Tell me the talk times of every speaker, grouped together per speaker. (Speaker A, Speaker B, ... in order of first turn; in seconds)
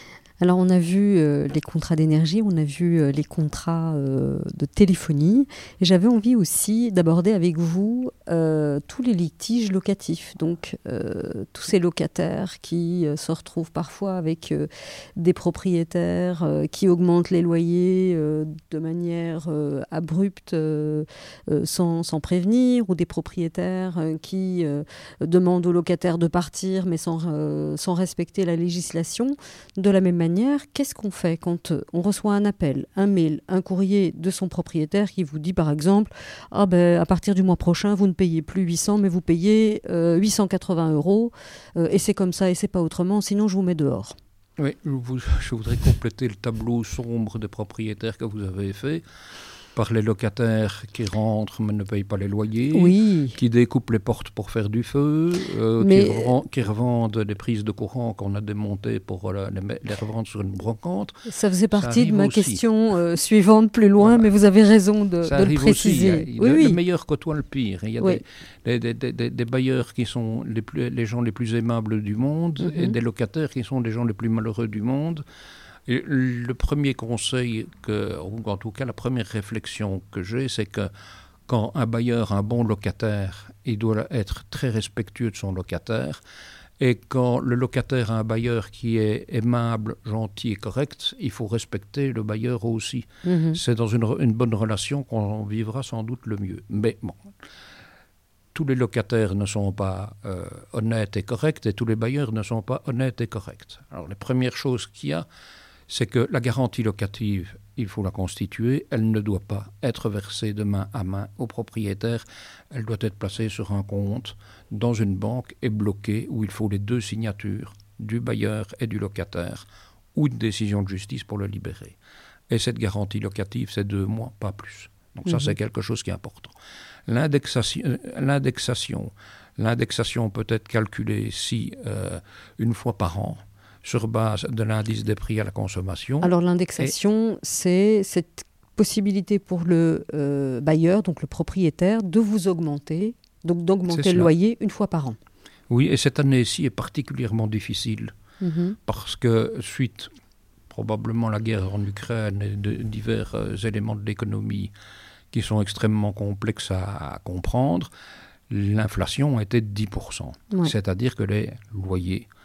Speaker A: 0.4-44.1, 52.7-53.4, 55.8-56.4, 61.2-66.8, 72.6-72.9, 93.2-93.6, 125.3-125.5, 136.2-145.2, 148.4-148.8
Speaker B: 44.6-49.0, 49.7-61.2, 61.7-62.6, 64.0-64.3, 65.2-75.2, 75.9-80.9, 81.5-86.2, 86.8-97.3, 98.5-105.2, 105.9-122.0, 122.5-126.5, 127.1-136.9, 143.9-144.3, 145.7-148.1, 148.8-150.1, 150.7-154.7, 155.3-157.9, 158.5-162.3